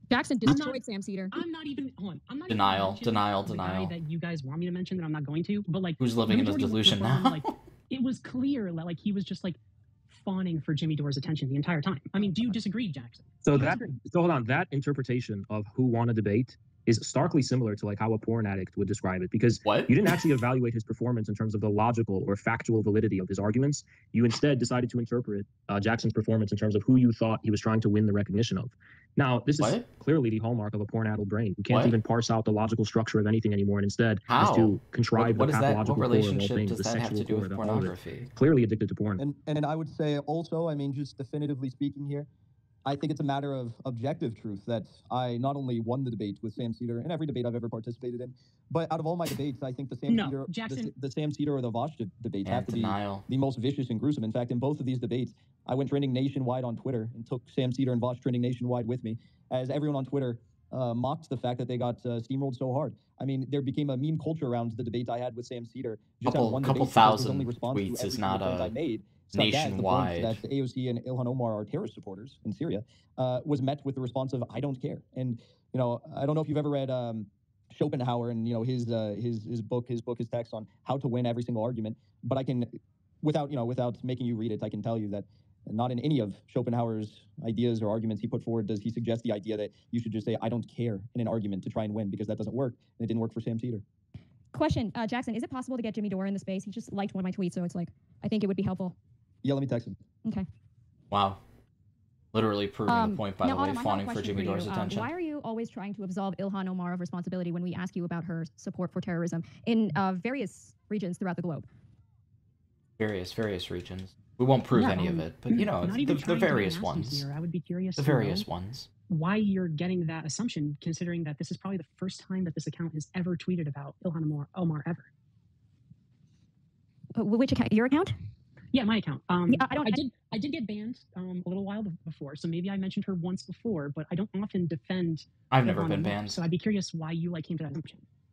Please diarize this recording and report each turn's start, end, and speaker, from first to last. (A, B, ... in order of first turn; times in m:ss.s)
0:00.1-0:01.4 A
0:00.4-0:09.6 B
0:02.5-0:04.0 C
0:06.0-0:07.6 C
0:10.1-0:13.9 B
0:13.4-0:39.2 D
0:19.6-0:20.0 C
0:29.6-0:29.8 C
0:31.7-0:32.0 C
0:34.3-0:38.3 C
0:39.2-0:42.3 E
0:42.8-1:33.8 E
0:50.1-0:50.9 B
0:52.4-0:53.2 C
1:06.2-1:08.7 C
1:09.3-1:10.4 C
1:34.5-1:38.9 A
1:39.4-1:40.0 E
1:41.1-1:41.4 C
1:42.3-1:45.1 C
1:42.9-1:51.6 A
1:53.0-1:57.2 C
1:54.7-1:55.2 A
1:55.5-1:58.4 B
1:58.0-1:58.9 C
1:59.1-2:05.1 B
2:07.1-2:08.1 A
2:08.7-2:18.0 B
2:09.5-2:10.0 A
2:15.5-2:16.4 C